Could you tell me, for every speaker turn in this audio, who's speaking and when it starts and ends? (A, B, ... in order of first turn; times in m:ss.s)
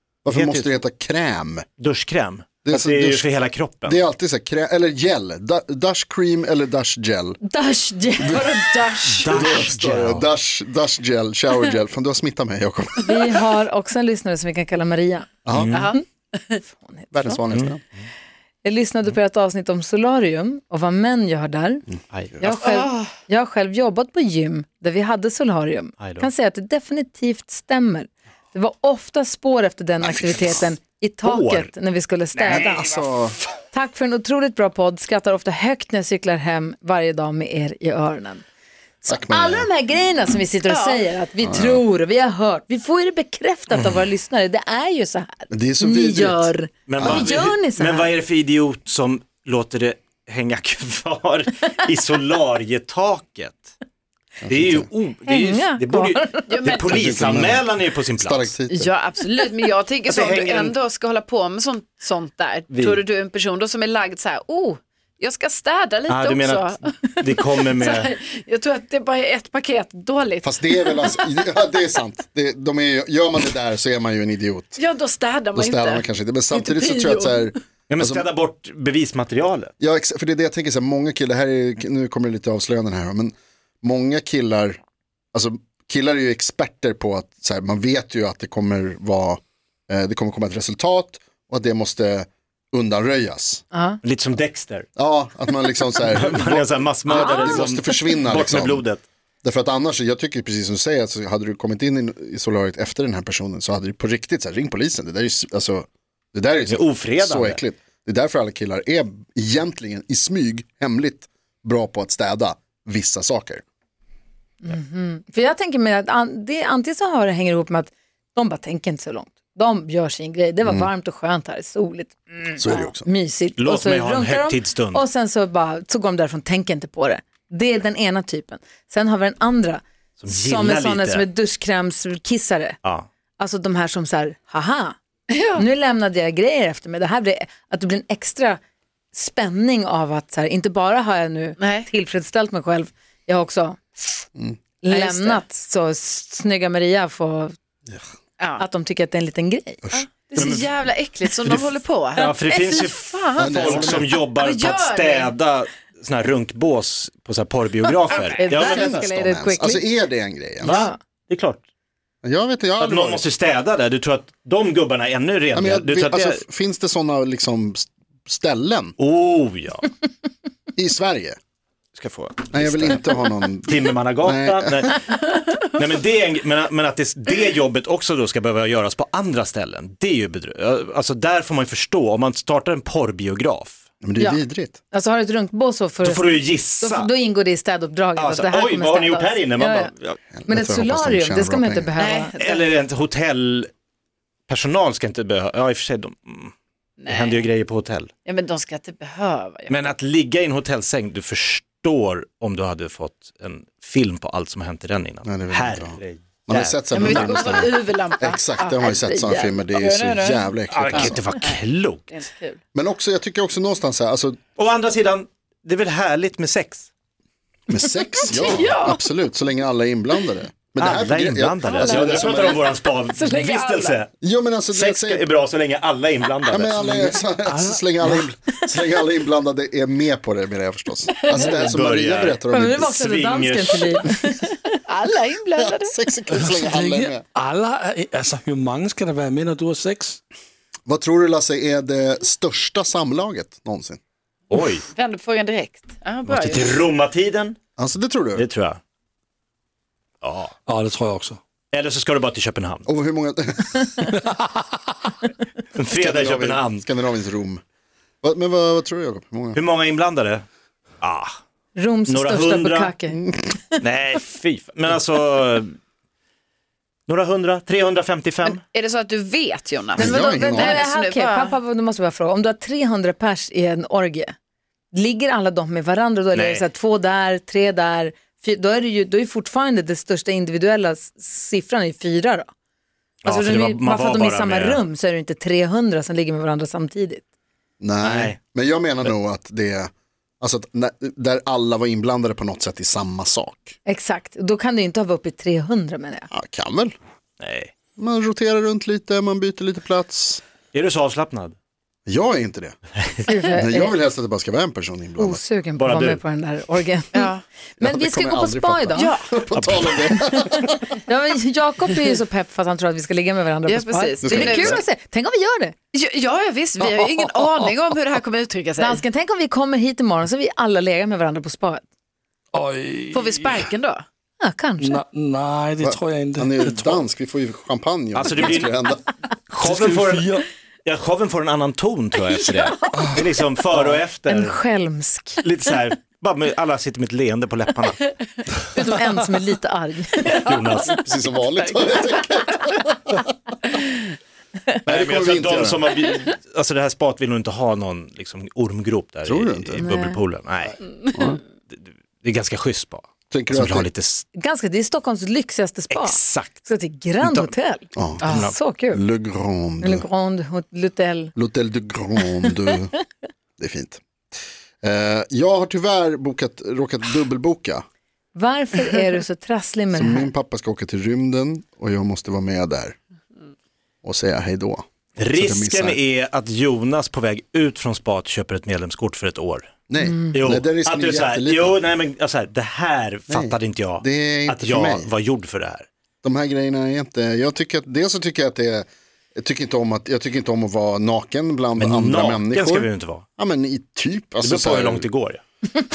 0:00.2-0:01.7 A
0:00.3-0:00.8 B
0:01.8-0:04.0 B
0:02.6-0:03.2 A
0:03.8-0:07.4 A
0:07.4-0:08.6 C
0:08.2-0:08.5 A
0:08.3-0:09.6 D
0:09.2-0:13.2 A
0:09.2-0:10.3 B
0:13.0-0:15.3 C
0:15.4-0:15.8 A
0:15.5-0:15.9 B
0:15.7-0:16.6 D
0:16.6-0:17.1 C
0:17.1-0:17.8 A
0:17.5-0:18.1 B
0:18.6-0:21.8 C
0:22.1-0:22.4 B
0:22.4-0:32.9 C
0:22.6-0:23.1 D
0:26.0-0:26.2 B
0:30.0-0:30.7 A
0:31.2-0:31.7 B
0:32.4-0:33.4 A
0:33.7-0:38.4 C
0:39.0-0:48.1 C
0:39.1-0:39.7 A
0:40.7-0:41.0 D
0:41.4-0:41.8 A
0:45.5-0:47.4 A
0:46.9-0:53.7 B
0:54.4-0:54.9 A
0:54.5-0:58.5 B
0:55.3-0:56.7 C
0:56.5-0:57.2 D
0:56.8-0:58.9 A
0:58.7-1:11.3 D
1:00.0-1:00.8 B
1:02.7-1:03.0 B
1:06.1-1:08.1 B
1:10.4-1:14.8 A
1:14.8-1:17.5 D
1:15.5-1:18.3 A
1:17.9-1:19.7 B
1:19.8-1:24.8 A
1:25.3-1:33.6 A
1:33.7-1:34.0 C
1:34.0-1:34.9 B
1:35.0-1:38.9 A
1:36.0-1:39.0 B
1:37.1-1:37.9 C
1:39.4-1:53.6 A
1:46.7-1:47.6 B
1:54.6-2:12.8 C
2:00.6-2:00.9 A
2:02.6-2:03.1 A
2:03.6-2:05.0 B
2:10.2-2:11.2 B
2:13.4-2:15.0 C
2:15.3-2:15.6 D
2:15.6-2:18.6 C
2:19.1-2:24.2 C
2:21.6-2:21.9 D
2:24.8-2:27.5 C
2:24.9-2:25.4 D
2:28.6-2:29.8 C
2:29.9-2:35.3 D
2:30.4-2:30.8 B
2:31.3-2:39.0 B
2:33.4-2:34.1 A
2:38.1-2:38.6 D
2:38.4-2:39.9 C
2:38.5-2:40.9 A
2:40.6-2:41.6 B
2:40.6-2:41.0 C
2:42.2-2:43.2 A
2:42.8-2:46.4 B
2:45.5-2:49.0 A
2:49.0-2:49.9 B
2:50.8-2:51.4 A
2:51.9-2:53.0 B
2:52.5-2:55.0 A
2:53.6-3:03.8 B
3:04.0-3:04.8 A
3:04.2-3:09.9 C
3:06.0-3:07.1 B
3:08.2-3:10.2 B
3:10.3-3:11.9 A
3:10.5-3:12.6 C
3:12.0-3:12.3 D
3:12.3-3:13.7 B
3:14.5-3:16.5 B
3:17.0-3:17.5 D
3:17.1-3:18.1 B
3:18.2-3:19.9 D
3:19.7-3:27.4 B
3:25.2-3:31.2 A
3:26.9-3:32.6 D
3:30.7-3:32.2 B
3:32.7-3:34.4 A
3:34.6-3:36.9 B
3:37.7-3:42.6 A
3:38.3-3:39.0 D
3:40.8-3:44.1 B
3:41.7-3:44.0 D
3:44.2-3:45.3 A
3:44.7-3:47.0 B
3:46.5-3:52.9 A
3:46.8-3:48.3 E
3:51.3-3:53.8 B
3:52.5-3:54.7 C
3:54.8-3:55.9 D
3:55.6-3:57.2 A
3:56.3-4:00.2 E
4:00.9-4:04.0 A
4:04.5-4:04.8 B
4:04.9-4:06.8 D
4:06.2-4:07.6 B
4:07.8-4:08.4 A
4:08.4-4:08.8 B
4:10.2-4:10.5 B
4:10.6-4:11.4 E
4:11.7-4:12.9 B
4:12.9-4:13.9 A
4:14.2-4:14.8 E
4:15.7-4:16.8 B
4:15.9-4:17.6 A
4:18.2-4:19.6 A
4:19.5-4:20.4 B
4:21.0-4:21.3 B
4:21.7-4:23.2 C
4:22.1-4:22.9 B
4:23.8-4:25.7 B
4:27.1-4:28.6 B
4:28.4-4:31.6 D
4:30.0-4:30.8 A
4:30.0-4:34.3 C
4:34.9-4:42.5 C
4:36.3-4:36.6 B
4:43.2-4:44.8 B
4:43.2-4:47.2 C
4:47.8-4:49.9 A
4:48.0-4:48.4 B
4:50.4-4:53.8 A
4:53.8-4:56.3 C
4:56.3-4:56.9 A
4:57.4-4:57.7 B
4:58.0-5:00.4 A
5:00.7-5:01.6 B
5:02.1-5:02.7 A
5:03.3-5:03.9 C
5:03.5-5:05.4 A
5:05.2-5:09.1 C
5:05.8-5:06.2 B
5:07.1-5:07.4 D
5:07.8-5:10.8 A
5:08.9-5:09.3 D
5:09.5-5:10.2 B
5:10.1-5:15.7 C
5:13.6-5:14.8 D
5:14.2-5:14.8 A
5:15.9-5:19.0 D
5:18.8-5:21.8 C
5:22.5-5:23.6 E
5:23.1-5:24.0 D
5:24.4-5:25.0 C
5:24.8-5:27.0 E
5:25.8-5:29.0 A
5:28.1-5:28.7 B
5:29.5-5:34.6 B
5:29.6-5:30.4 E
5:34.3-5:35.4 C
5:35.4-5:38.1 B
5:38.7-5:40.4 C
5:40.3-5:41.0 B
5:40.8-5:43.3 A
5:44.8-5:50.8 B
5:44.8-5:45.9 A
5:49.2-5:49.9 A
5:49.8-5:50.2 C
5:51.1-5:51.4 A
5:51.7-5:54.2 B
5:53.3-5:53.9 A
5:54.3-5:59.0 C
5:55.9-5:56.6 B
5:57.2-5:57.5 B
5:58.0-6:00.0 A
5:58.2-5:58.5 D
5:59.8-6:01.3 C
6:01.3-6:02.9 A
6:03.6-6:04.0 A
6:04.8-6:07.8 A
6:08.3-6:10.3 C
6:09.9-6:13.0 A
6:14.0-6:16.0 A
6:15.2-6:19.7 B
6:19.9-6:21.8 A
6:20.0-6:20.3 C
6:20.3-6:25.8 B
6:23.3-6:25.1 A
6:26.2-6:35.1 A
6:31.8-6:33.2 B
6:34.4-6:35.4 B